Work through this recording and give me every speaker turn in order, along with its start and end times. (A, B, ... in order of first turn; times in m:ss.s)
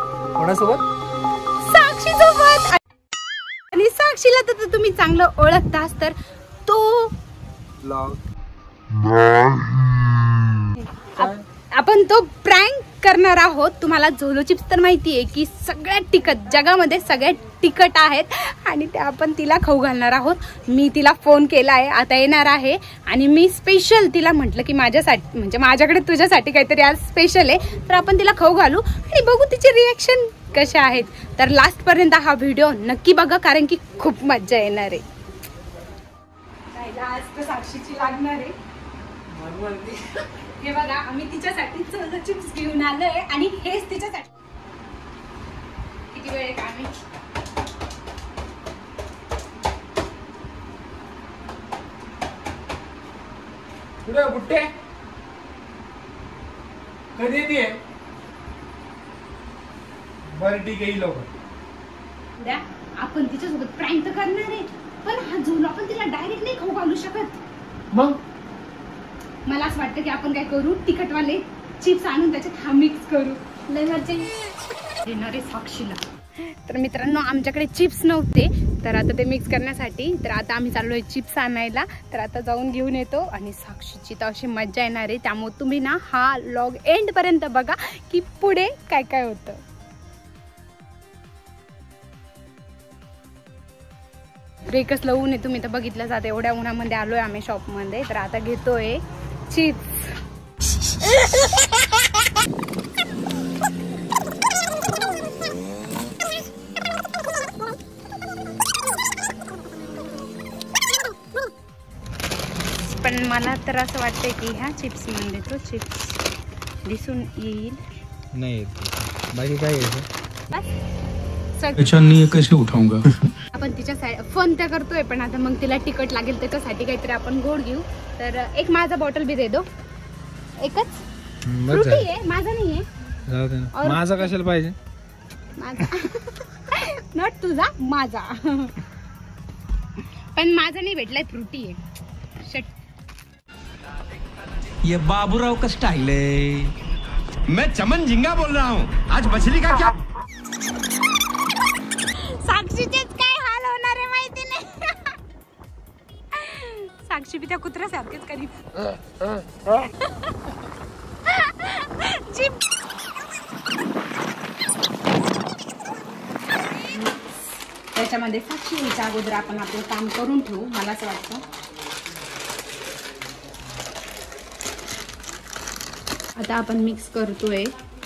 0:00.4-0:00.8 A
0:01.6-0:02.8 B
0:03.7-0:06.2 B
0:06.7-0:07.1 B
0:07.8-0:08.2 A
0:11.1-0:35.0 B
0:11.2-0:11.4 A
0:36.7-0:38.6 B
0:39.3-0:40.0 A
0:40.6-0:44.3 B
0:46.1-0:47.0 B
0:54.0-0:54.7 A
0:57.2-0:57.8 A
1:00.3-1:01.3 A
1:02.4-1:07.4 B
1:09.5-1:14.3 B
1:15.0-1:29.6 B
1:34.7-1:40.1 B
1:52.8-1:56.0 B
1:56.9-1:57.8 B
1:58.3-2:00.1 A
2:01.6-2:02.4 B
2:01.8-2:03.0 C
2:03.5-2:09.7 B
2:10.6-2:11.0 B
2:11.4-2:12.1 A
2:11.7-2:12.9 B
2:13.3-2:14.8 A
2:13.8-2:14.3 B
2:15.6-2:18.7 B
2:20.4-2:21.8 B
2:22.4-2:22.7 B
2:24.8-2:26.7 C
2:27.5-2:29.9 D
2:32.1-2:35.1 B
2:36.3-2:38.5 B
2:41.3-2:42.6 B
2:48.0-2:51.4 B
2:56.4-2:57.7 B